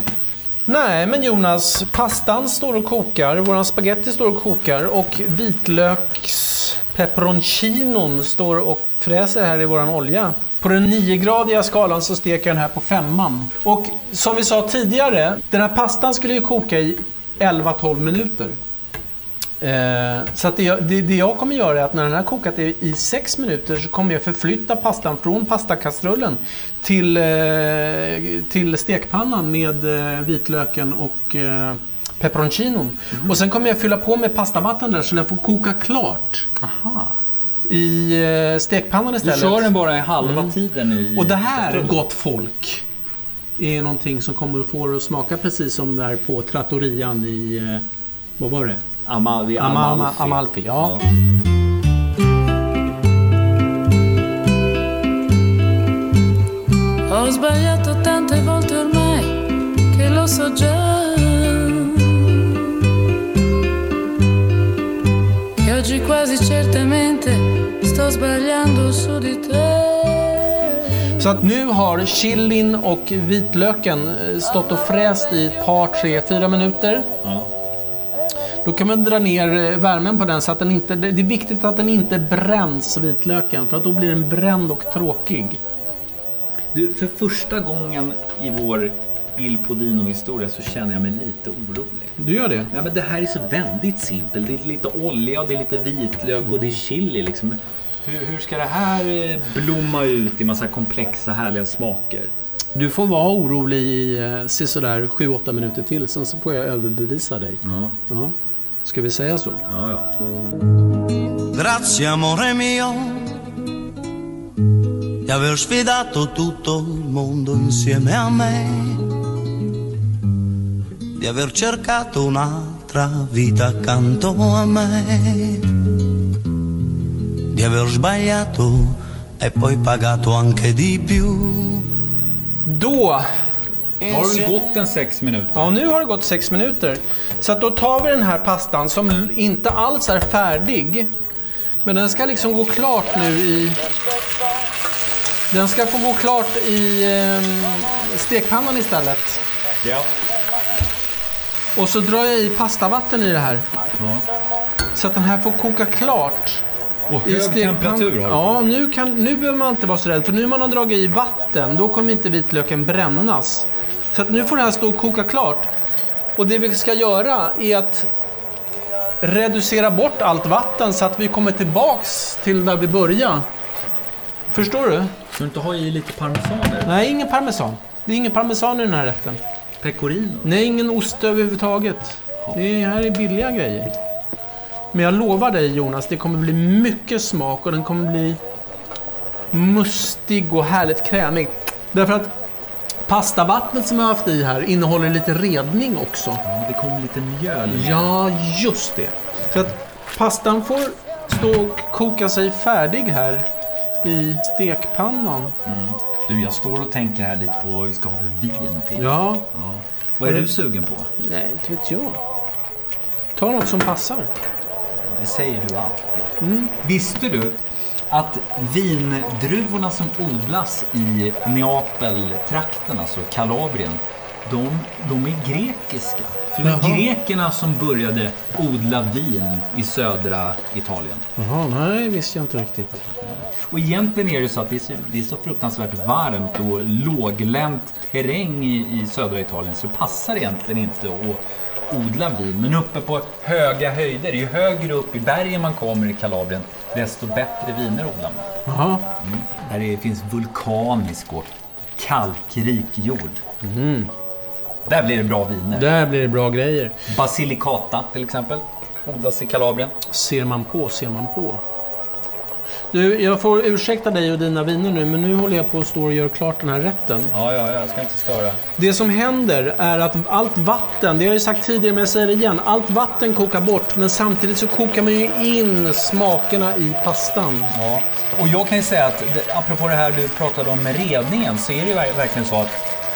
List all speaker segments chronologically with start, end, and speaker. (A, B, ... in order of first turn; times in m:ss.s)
0:00.7-0:18.6 A
0:19.6-0:36.6 A
0:36.6-0:37.2 B
0:37.6-0:40.6 A
0:39.2-0:42.0 B
0:41.1-0:42.8 A
0:43.6-0:47.8 A
0:48.4-0:48.8 A
0:49.1-0:51.0 B
0:49.6-0:51.0 A
0:57.1-1:02.8 C
1:05.6-1:10.9 C
1:11.2-1:17.1 A
1:17.2-1:17.5 B
1:18.6-1:25.6 A
1:26.7-1:32.2 B
1:32.2-1:32.7 A
1:32.7-1:42.3 B
1:42.8-1:48.3 A
1:47.6-1:48.0 B
1:48.8-1:49.6 A
1:49.7-1:50.1 B
1:51.5-1:53.4 D
1:55.2-1:59.2 D
2:01.2-2:05.9 D
2:07.5-2:11.9 D
2:12.7-2:13.3 A
2:14.1-2:15.7 B
2:14.1-2:14.5 D
2:15.5-2:21.1 A
2:21.8-2:23.8 A
2:25.5-2:29.4 A
2:29.8-2:30.1 B
2:31.8-2:33.7 A
2:34.0-2:34.3 B
2:34.9-2:36.6 A
2:37.1-2:38.6 B
2:37.2-2:45.7 A
2:46.4-2:48.1 A
2:49.2-2:53.5 A
2:54.5-2:55.2 A
2:55.3-2:56.9 B
2:56.8-2:59.4 A
2:59.8-3:00.5 B
3:00.4-3:03.9 A
3:04.9-3:08.4 A
3:09.5-3:12.3 A
3:13.1-3:16.4 A
3:16.4-3:18.1 B
3:17.7-3:23.5 A
3:24.0-3:25.5 A
3:25.6-3:31.1 B
3:29.0-3:29.5 A
3:31.2-3:32.2 A
3:33.4-3:34.3 A
3:35.0-3:37.6 B
3:36.4-3:36.7 A
3:38.1-3:51.3 B
3:46.6-3:47.0 A
3:51.4-3:53.1 A
3:53.2-4:08.5 B
4:08.7-4:09.1 A
4:09.2-4:13.4 B
4:13.6-4:14.1 A
4:14.9-4:15.9 B
4:15.7-4:17.0 A
4:17.1-4:20.0 B
4:20.1-4:21.6 A
4:22.9-4:27.3 A
4:27.3-4:28.6 B
4:28.8-4:37.7 A
4:37.7-4:42.8 B